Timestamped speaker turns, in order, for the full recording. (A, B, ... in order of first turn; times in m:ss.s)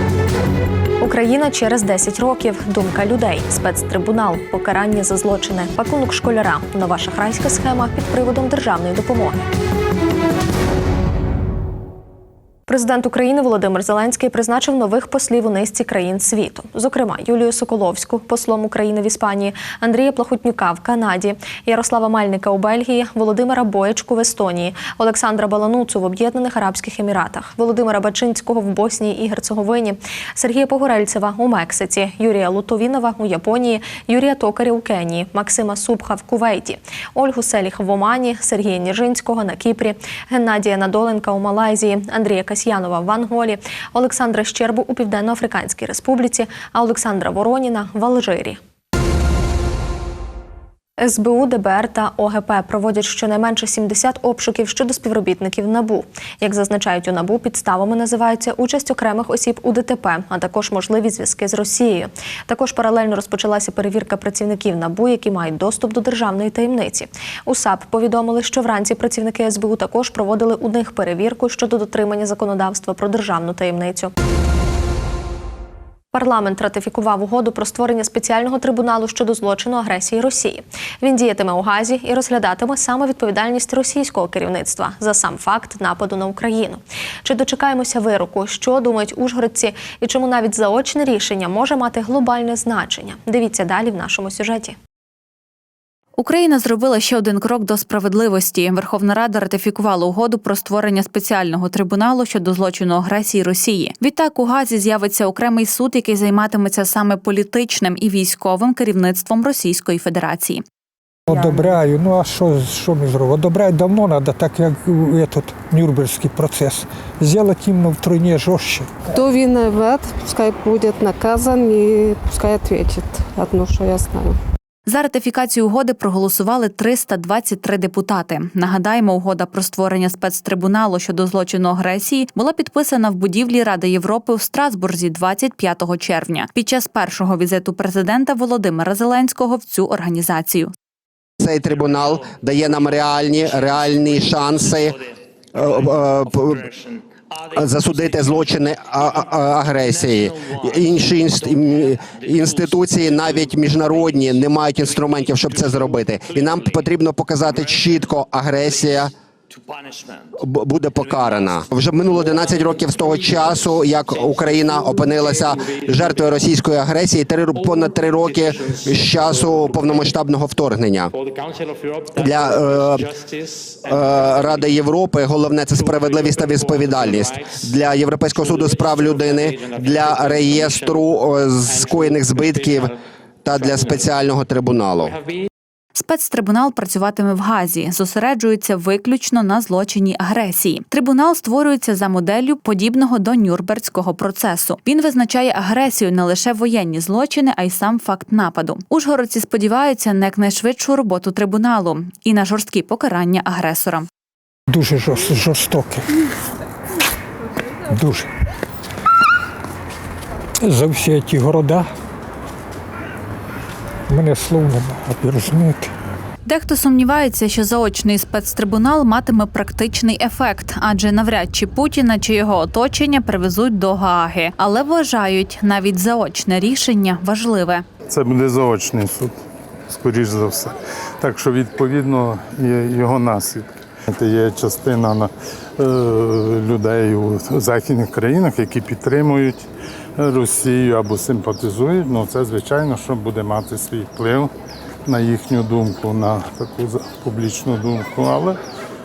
0:01.0-0:09.4 A
0:12.7-0:48.6 A
0:51.0-1:14.1 A
1:16.1-1:34.8 A
1:36.2-1:50.6 B
1:51.3-1:58.9 C
1:59.1-2:04.4 D
2:04.9-2:20.7 B
2:21.4-2:25.0 E
2:25.5-2:26.7 E
2:27.5-2:39.1 E
2:40.4-2:51.1 E
2:52.1-2:53.1 E
2:53.8-3:02.9 E
3:03.4-3:05.2 E
3:05.9-3:24.1 B
3:24.7-3:26.1 C
3:27.9-3:28.3 C
3:30.6-3:31.9 C
3:34.1-3:35.9 C
3:36.4-3:47.8 B
3:48.1-3:49.3 F
3:49.9-3:59.6 F
4:00.2-4:04.5 F
4:05.0-4:08.6 F